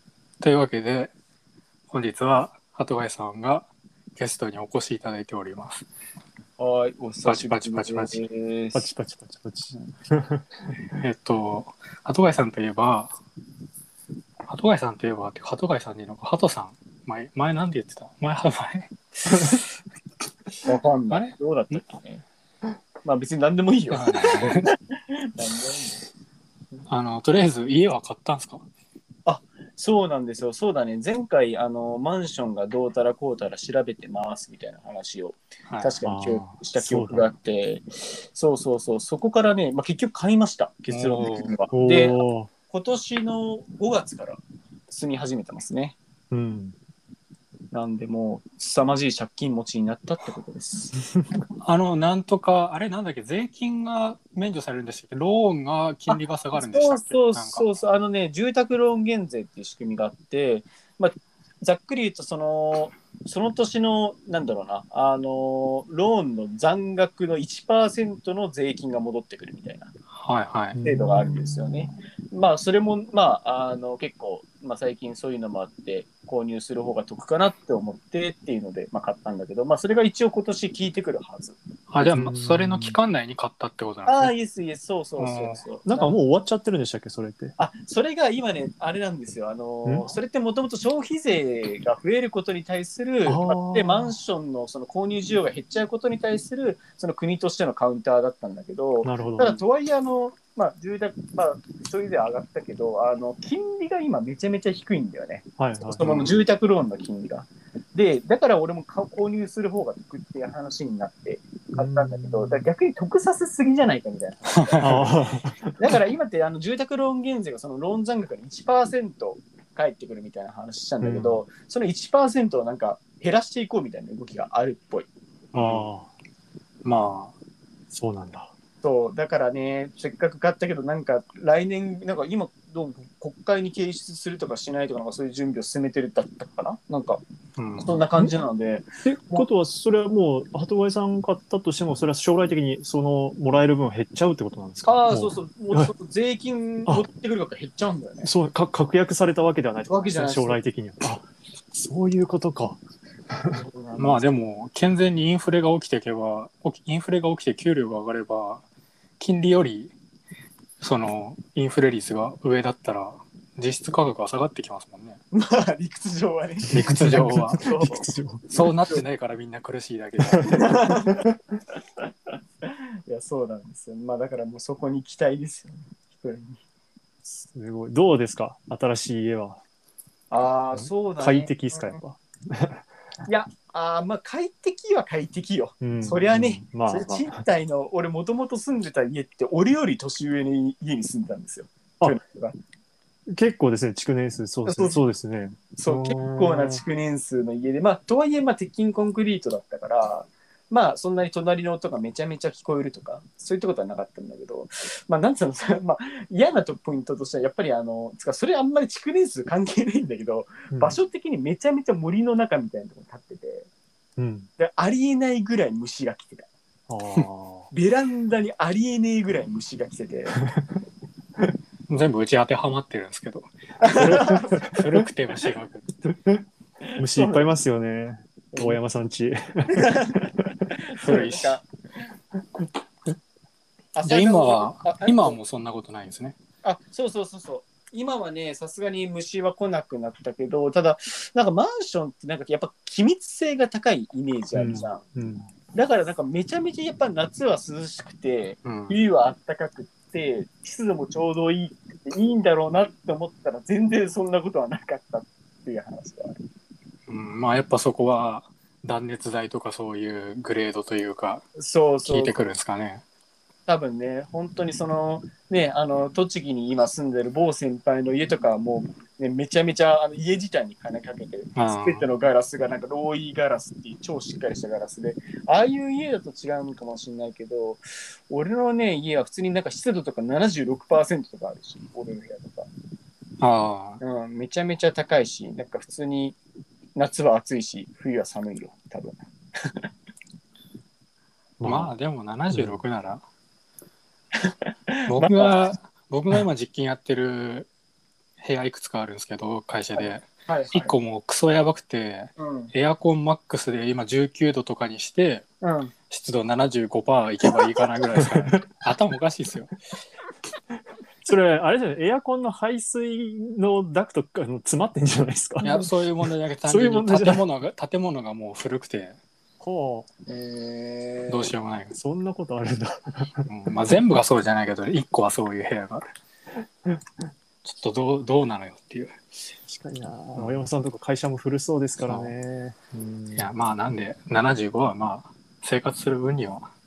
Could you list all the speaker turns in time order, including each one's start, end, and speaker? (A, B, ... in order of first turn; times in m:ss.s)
0:00.4-0:01.1 A
0:01.9-0:05.9 A
0:06.6-0:08.9 B
0:07.2-0:08.3 A
0:08.7-0:10.5 C
0:10.9-0:13.2 A
0:14.5-0:19.7 A
0:20.6-0:22.2 B
0:21.1-0:21.8 A
0:23.0-0:26.0 B
0:23.9-0:24.7 A
0:26.9-0:28.6 A
0:29.3-0:46.0 B
0:35.7-0:36.0 A
0:36.0-0:37.3 C
0:40.9-0:42.5 C
0:41.0-0:41.6 A
0:46.3-0:46.8 C
0:47.7-0:50.9 B
0:51.6-0:57.7 A
0:56.1-1:09.9 B
1:10.1-1:10.8 A
1:10.7-1:11.9 C
1:10.8-1:21.6 B
1:21.9-1:24.3 A
1:22.0-1:23.0 C
1:24.1-1:26.1 B
1:25.2-1:25.6 A
1:25.9-1:27.6 C
1:27.6-2:05.1 B
1:29.8-1:30.2 C
1:33.2-1:34.2 C
1:39.0-1:39.6 C
1:45.6-1:46.0 C
1:46.0-1:46.4 A
1:51.8-1:52.7 C
1:54.5-1:54.9 A
1:54.8-1:55.7 C
2:01.0-2:01.4 C
2:05.5-2:05.9 A
2:05.6-2:06.1 C
2:06.8-2:07.4 A
2:07.9-2:08.5 C
2:08.8-2:17.2 B
2:17.6-2:18.0 A
2:17.8-2:19.5 B
2:19.0-2:25.9 C
2:24.8-2:28.3 B
2:28.2-2:32.8 C
2:29.9-2:30.6 B
2:33.3-2:33.6 C
2:33.5-2:34.3 B
2:34.0-2:38.6 A
2:39.2-2:40.0 A
2:40.8-2:45.2 A
2:45.3-2:48.1 B
2:46.7-2:48.8 C
2:46.7-2:47.6 A
2:48.5-2:50.8 A
2:50.3-2:51.4 C
2:50.5-2:51.3 B
2:52.6-2:56.6 B
2:57.2-2:59.6 C
3:00.3-3:02.0 B
3:00.8-3:02.9 C
3:03.3-3:12.6 B
3:05.8-3:07.4 C
3:13.3-3:16.8 C
3:14.7-3:15.0 B
3:15.8-3:33.7 B
3:30.7-3:31.0 C
3:34.2-3:34.5 C
3:34.6-3:36.5 B
3:36.9-3:37.7 C
3:37.7-3:40.4 B
3:41.9-3:45.9 A
3:43.8-3:44.8 B
3:44.0-3:44.7 C
3:47.0-3:47.5 B
3:47.0-3:50.0 C
3:48.5-3:48.8 B
3:49.7-3:50.4 B
3:50.9-3:51.6 B
3:51.0-3:51.6 A
3:54.0-3:55.4 B
3:54.0-3:56.4 A
3:56.6-4:05.0 B
4:04.5-4:05.5 C
4:05.7-4:16.4 B
4:08.6-4:09.0 A
4:17.1-4:21.4 A
4:21.6-4:22.4 B
4:22.0-4:23.0 A
4:23.7-4:42.7 B
4:31.6-4:32.1 A
4:43.4-4:44.0 A
4:44.0-4:46.4 B
4:47.0-4:49.9 B
4:51.6-4:51.9 C
4:51.6-4:53.2 A
4:52.5-4:52.8 C
4:54.4-4:55.6 B
4:55.1-4:57.7 A
4:58.4-5:05.5 A
5:00.0-5:00.9 B
5:02.4-5:02.7 B
5:05.6-5:05.9 B
5:06.1-5:09.7 A
5:11.2-5:15.8 C
5:15.6-5:19.2 A
5:16.7-5:17.4 C
5:19.6-5:20.1 C
5:20.3-5:21.5 B
5:21.3-5:22.0 A
5:21.9-5:23.5 C
5:23.5-5:26.1 A
5:27.6-5:29.2 A
5:29.7-5:33.5 C
5:30.4-5:30.7 A
5:32.0-5:32.3 A
5:33.3-5:36.7 A